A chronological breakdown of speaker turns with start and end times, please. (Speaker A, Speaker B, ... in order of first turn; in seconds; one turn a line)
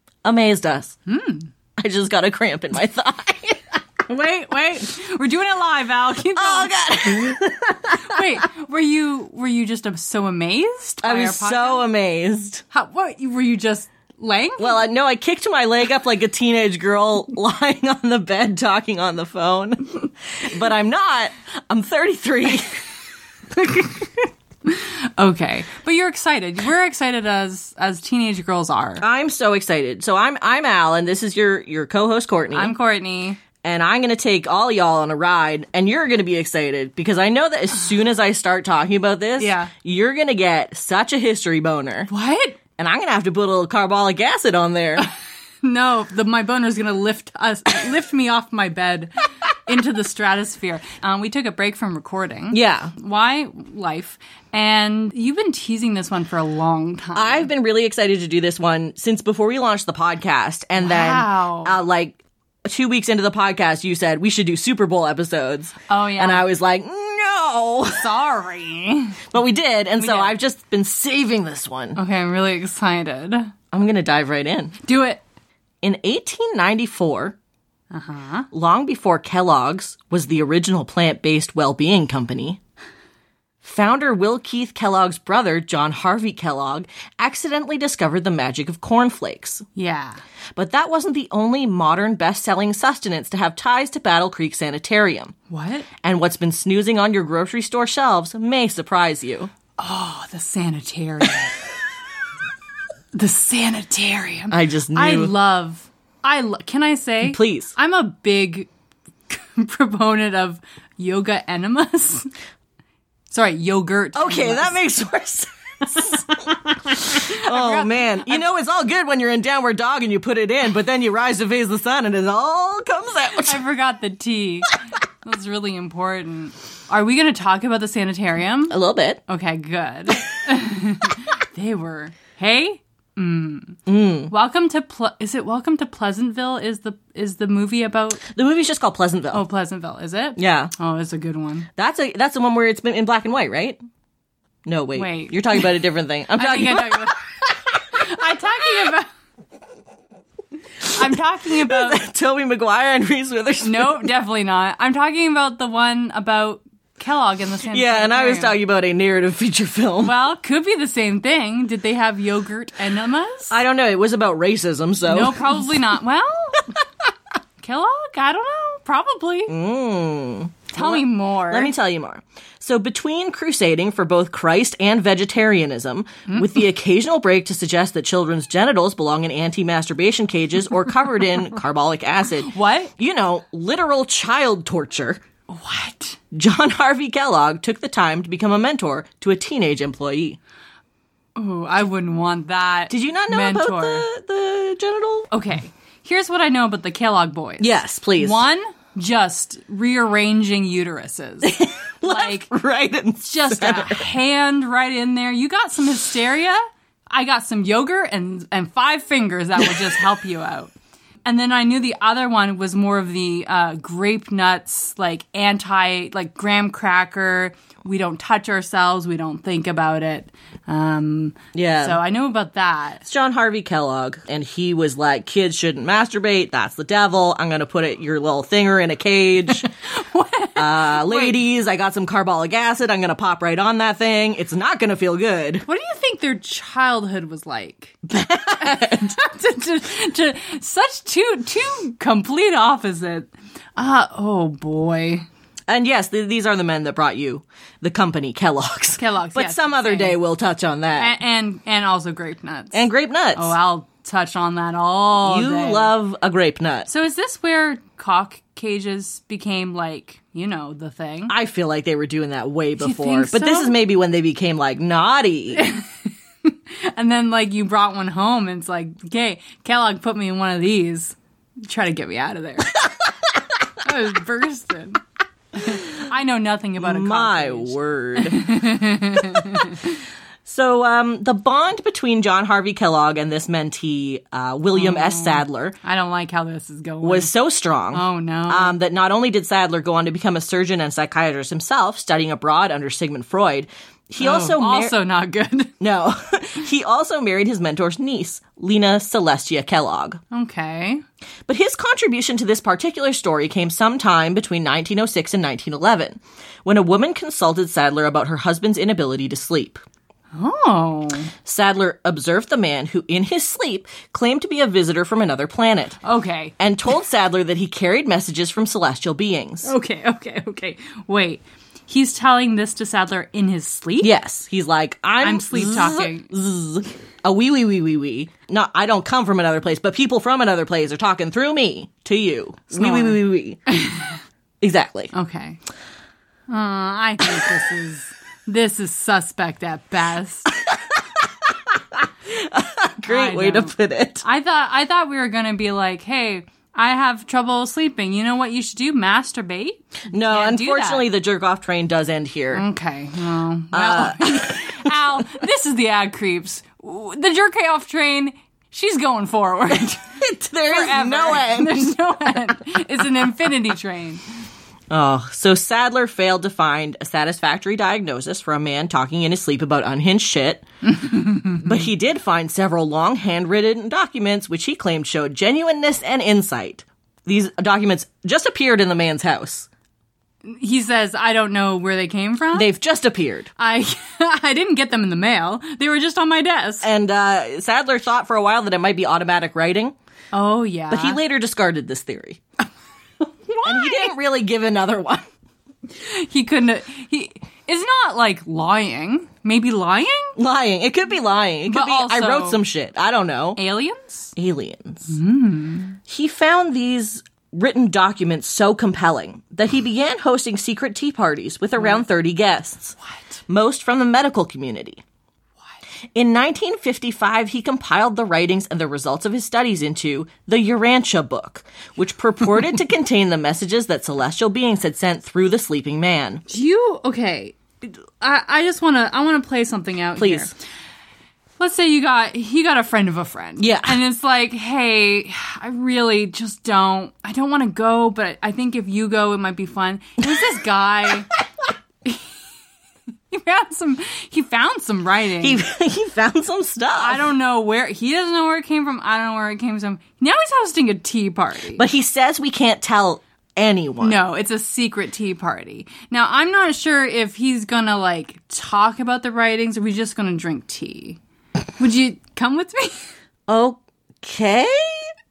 Speaker A: 0.2-1.0
Speaker B: 1.1-1.5
Speaker A: 1.8-3.6
Speaker B: 4.1-6.7
Speaker A: 6.3-8.2
Speaker B: 7.9-11.8
Speaker A: 11.0-12.6
Speaker B: 12.7-14.8
Speaker A: 14.6-22.8
Speaker B: 23.7-24.0
Speaker B: 24.7-29.0
Speaker A: 29.0-32.8
Speaker B: 32.5-33.4
Speaker A: 33.6-42.1
Speaker B: 39.4-39.7
Speaker B: 42.1-42.6
Speaker A: 42.8-45.1
Speaker B: 45.6-57.5
Speaker A: 52.5-52.9
Speaker A: 57.1-68.1
Speaker B: 60.8-61.8
Speaker B: 65.9-66.5
Speaker B: 68.0-69.3
Speaker A: 69.3-72.0
Speaker B: 70.0-70.3
Speaker B: 72.0-73.5
Speaker A: 73.7-74.8
Speaker B: 74.8-75.2
Speaker A: 75.8-77.4
Speaker B: 77.9-78.5
Speaker A: 78.5-82.6
Speaker A: 83.6-89.7
Speaker B: 89.8-90.2
Speaker A: 90.5-95.3
Speaker B: 95.5-95.9
Speaker A: 96.0-99.5
Speaker B: 99.8-101.6
Speaker B: 103.1-108.7
Speaker A: 104.5-105.3
Speaker A: 107.2-107.7
Speaker B: 109.3-112.3
Speaker B: 113.3-114.8
Speaker A: 114.1-116.2
Speaker B: 116.0-118.5
Speaker A: 117.1-123.6
Speaker B: 123.5-128.7
Speaker A: 128.7-129.2
Speaker B: 129.3-138.2
Speaker A: 133.9-134.3
Speaker A: 138.3-139.4
Speaker B: 139.3-141.7
Speaker A: 140.4-140.7
Speaker A: 141.8-143.8
Speaker A: 144.7-147.1
Speaker B: 144.9-145.5
Speaker B: 146.3-149.1
Speaker B: 150.9-152.0
Speaker A: 151.6-154.1
Speaker B: 153.6-158.6
Speaker A: 157.7-160.1
Speaker B: 160.0-163.5
Speaker A: 163.5-165.6
Speaker B: 165.1-166.7
Speaker B: 167.6-169.5
Speaker A: 169.5-185.2
Speaker B: 170.7-171.7
Speaker B: 182.5-182.9
Speaker B: 185.5-186.2
Speaker A: 186.3-190.4
Speaker B: 191.4-194.1
Speaker A: 192.9-195.3
Speaker B: 195.3-202.5
Speaker A: 197.6-198.4
Speaker A: 201.4-204.1
Speaker B: 203.2-210.7
Speaker B: 211.2-223.1
Speaker A: 221.5-222.0
Speaker A: 223.0-229.7
Speaker B: 229.9-231.4
Speaker A: 230.6-235.7
Speaker B: 235.7-245.3
Speaker A: 238.1-239.2
Speaker A: 245.7-251.2
Speaker B: 249.0-250.2
Speaker B: 251.0-252.8
Speaker A: 252.7-253.6
Speaker B: 253.3-255.9
Speaker A: 255.2-256.9
Speaker B: 256.9-261.3
Speaker A: 261.3-265.7
Speaker B: 262.8-263.8
Speaker B: 265.6-272.9
Speaker B: 273.8-275.0
Speaker B: 275.6-279.9
Speaker A: 276.8-278.6
Speaker A: 279.2-279.7
Speaker A: 280.4-285.8
Speaker B: 284.8-287.3
Speaker A: 287.0-294.9
Speaker B: 287.9-288.8
Speaker B: 294.2-295.8
Speaker A: 295.8-300.2
Speaker B: 300.3-301.0
Speaker A: 301.5-309.8
Speaker B: 310.3-311.3
Speaker A: 311.5-316.0
Speaker B: 316.0-316.5
Speaker A: 316.6-319.7
Speaker B: 319.6-324.1
Speaker A: 324.0-333.6
Speaker B: 325.2-326.3
Speaker B: 332.7-334.1
Speaker A: 334.6-335.1
Speaker B: 335.1-335.6
Speaker B: 336.5-340.5
Speaker A: 340.5-344.2
Speaker B: 343.1-351.1
Speaker A: 350.1-352.7
Speaker B: 352.5-364.2
Speaker A: 353.7-355.2
Speaker A: 360.2-362.0
Speaker A: 364.9-370.6
Speaker B: 370.8-371.8
Speaker A: 371.6-379.7
Speaker B: 380.4-382.7
Speaker A: 382.5-383.5
Speaker B: 383.6-386.9
Speaker A: 386.8-389.9
Speaker B: 390.3-391.2
Speaker A: 390.9-392.4
Speaker B: 393.5-394.1
Speaker A: 393.6-395.3
Speaker B: 395.9-400.4
Speaker A: 400.4-403.6
Speaker B: 401.7-402.6
Speaker B: 403.6-404.3
Speaker A: 404.4-405.1
Speaker B: 405.1-406.0
Speaker A: 406.1-413.0
Speaker B: 411.8-412.0
Speaker B: 413.0-413.4
Speaker A: 413.5-415.0
Speaker A: 416.1-426.4
Speaker B: 426.5-430.6
Speaker A: 430.2-430.5
Speaker B: 431.6-441.3
Speaker A: 433.6-434.0
Speaker B: 443.3-445.6
Speaker A: 445.4-447.2
Speaker B: 447.0-451.9
Speaker A: 451.8-454.2
Speaker B: 454.0-461.2
Speaker B: 461.8-463.1
Speaker A: 463.5-465.1